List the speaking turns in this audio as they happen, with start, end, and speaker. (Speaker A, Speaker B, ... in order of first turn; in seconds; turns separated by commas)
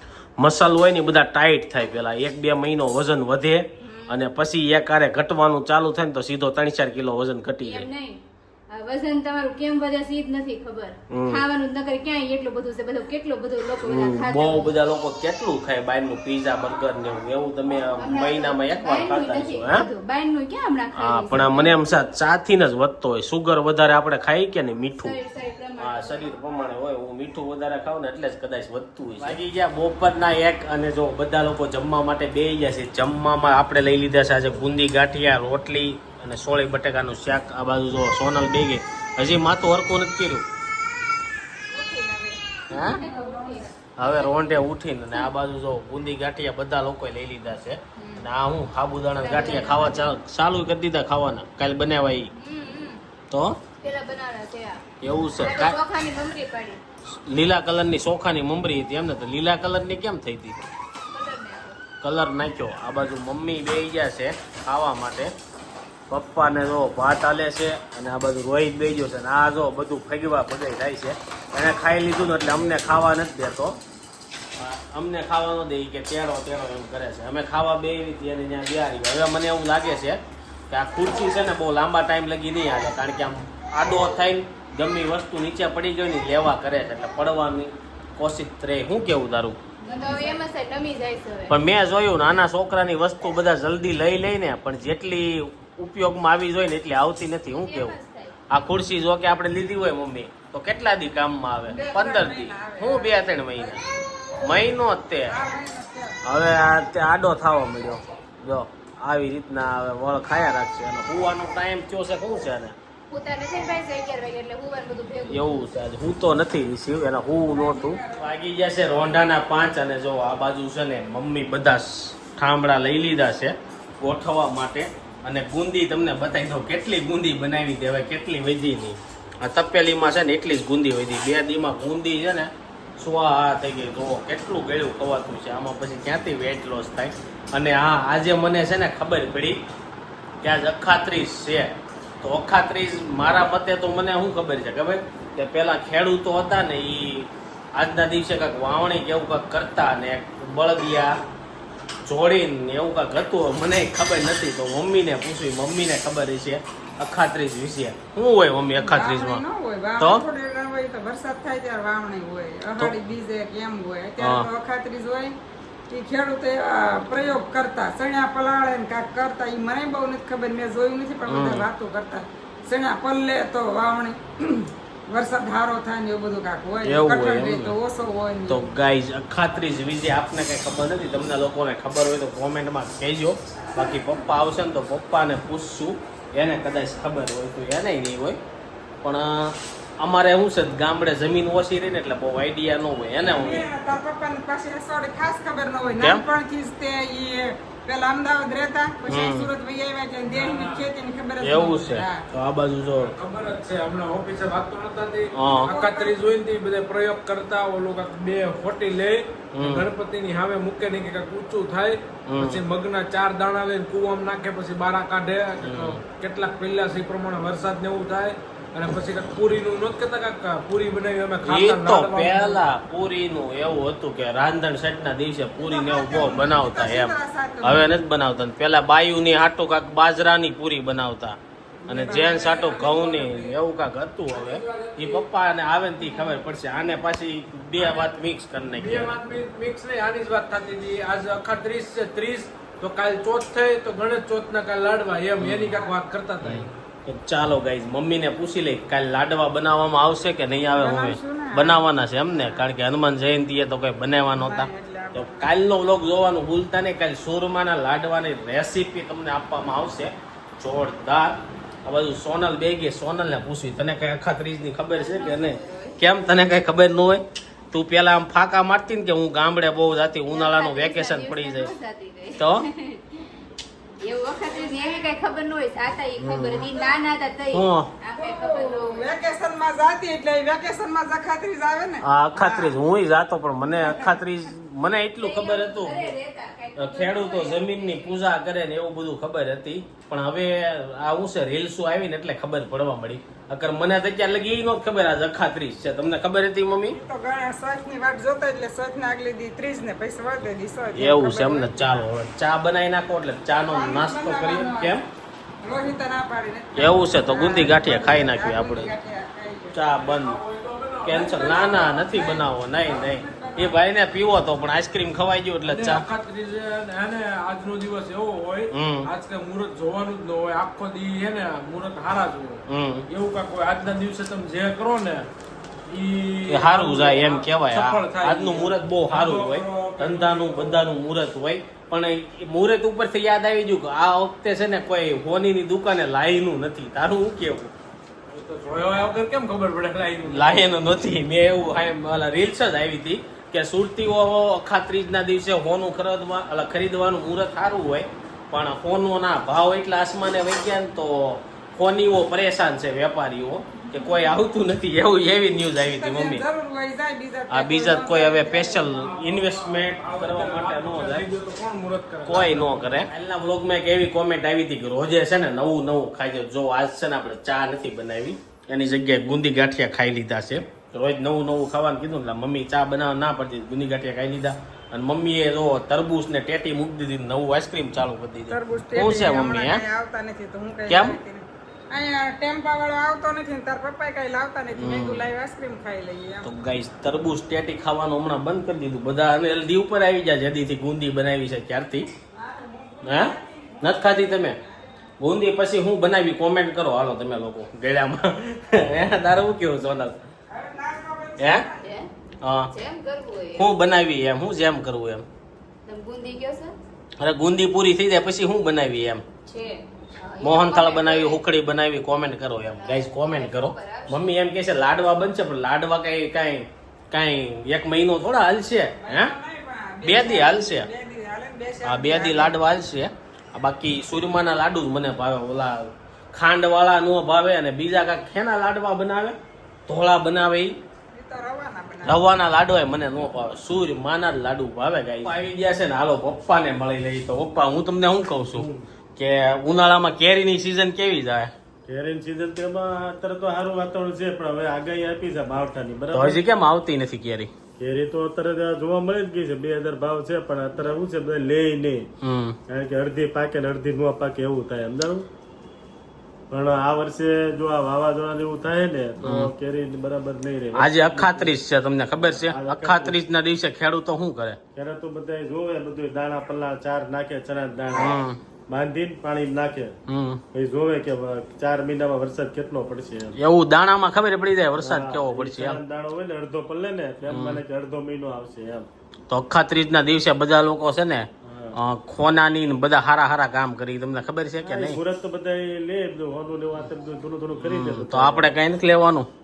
Speaker A: 0.4-7.9, Speaker B: 3.8-4.2, Speaker B: 7.6-14.7, Speaker A: 11.1-11.4, Speaker A: 13.8-19.9, Speaker B: 17.9-21.8, Speaker A: 21.0-25.1, Speaker B: 24.9-26.4, Speaker A: 25.8-40.5, Speaker B: 41.7-44.5, Speaker C: 42.7-43.7, Speaker A: 44.0-52.3, Speaker B: 48.0-48.2, Speaker B: 49.1-50.2, Speaker B: 52.3-53.0, Speaker A: 53.3-53.6, Speaker B: 53.8-54.8, Speaker A: 55.0-55.8, Speaker B: 55.4-56.8, Speaker A: 57.2-60.6, Speaker B: 61.1-61.8, Speaker A: 62.0-65.3, Speaker A: 66.1-73.8, Speaker A: 74.6-89.6, Speaker B: 89.8-91.6, Speaker A: 91.5-97.9, Speaker B: 97.5-98.4, Speaker A: 98.5-103.8, Speaker C: 101.7-103.8, Speaker A: 104.4-105.3, Speaker C: 105.3-106.2, Speaker A: 106.2-112.8, Speaker B: 113.1-115.8, Speaker A: 115.3-139.6, Speaker C: 117.3-118.4, Speaker A: 140.4-151.2, Speaker A: 152.1-159.4, Speaker C: 158.8-165.4, Speaker A: 164.2-164.5, Speaker C: 165.9-178.7, Speaker A: 171.3-171.6, Speaker A: 176.8-177.8, Speaker A: 178.5-188.4, Speaker A: 189.0-193.6, Speaker C: 193.2-202.2, Speaker A: 199.1-199.5, Speaker D: 200.3-200.9, Speaker A: 201.4-203.1, Speaker D: 203.0-222.7, Speaker C: 205.4-206.2, Speaker A: 209.5-209.9, Speaker A: 215.6-216.0, Speaker A: 221.4-231.4, Speaker C: 225.6-228.0, Speaker C: 231.8-233.6, Speaker A: 231.9-239.2, Speaker D: 232.3-232.8, Speaker D: 234.3-235.3, Speaker D: 237.8-238.1, Speaker D: 238.8-246.8, Speaker A: 245.4-245.8, Speaker A: 246.4-254.6, Speaker C: 250.7-252.7, Speaker C: 254.3-255.6, Speaker A: 255.2-271.7, Speaker B: 264.9-266.0, Speaker B: 270.3-273.2, Speaker A: 272.4-272.6, Speaker B: 274.0-279.1, Speaker A: 276.2-276.6, Speaker C: 276.6-276.9, Speaker A: 277.6-277.9, Speaker C: 278.2-282.8, Speaker A: 282.0-286.1, Speaker C: 283.6-284.2, Speaker B: 285.2-288.2, Speaker A: 286.8-297.0, Speaker C: 296.9-302.1, Speaker A: 300.9-305.0, Speaker C: 303.6-305.0, Speaker C: 305.6-309.9, Speaker A: 306.8-308.9, Speaker A: 309.7-310.4, Speaker D: 309.9-311.6, Speaker A: 311.1-315.9, Speaker C: 311.2-313.9, Speaker D: 315.6-325.3, Speaker A: 318.7-319.1, Speaker A: 322.7-323.1, Speaker D: 325.9-331.0, Speaker A: 326.5-337.7, Speaker D: 338.3-340.8, Speaker A: 340.3-356.4, Speaker C: 354.0-354.3, Speaker C: 355.8-359.1, Speaker A: 357.5-361.3, Speaker D: 359.0-363.0, Speaker A: 362.3-379.8, Speaker C: 378.5-386.5, Speaker A: 380.9-381.1, Speaker A: 384.8-385.1, Speaker A: 386.4-392.1, Speaker C: 392.3-394.6, Speaker A: 393.0-393.3, Speaker A: 393.9-394.6, Speaker A: 395.2-400.2, Speaker C: 400.5-401.9, Speaker B: 401.8-402.1, Speaker B: 402.7-403.7, Speaker A: 403.6-405.3, Speaker B: 405.9-406.8, Speaker A: 407.2-409.2, Speaker B: 409.4-411.4, Speaker A: 410.4-419.3, Speaker B: 412.7-414.3, Speaker C: 418.9-422.6, Speaker A: 420.0-420.9, Speaker A: 421.8-430.8, Speaker C: 431.1-432.3, Speaker A: 432.1-438.6, Speaker E: 438.5-438.8, Speaker A: 439.2-441.5, Speaker E: 441.9-446.4, Speaker A: 446.1-447.5, Speaker E: 447.8-452.1, Speaker A: 452.2-452.6, Speaker E: 452.7-455.3, Speaker E: 456.5-461.6, Speaker A: 460.8-464.6, Speaker E: 462.3-463.2, Speaker E: 464.8-469.9, Speaker A: 470.1-470.4, Speaker E: 470.5-473.4, Speaker A: 473.4-475.8, Speaker E: 474.8-478.9, Speaker A: 477.3-477.6, Speaker A: 479.3-485.0, Speaker E: 481.4-481.8, Speaker E: 484.6-488.5, Speaker A: 487.6-489.3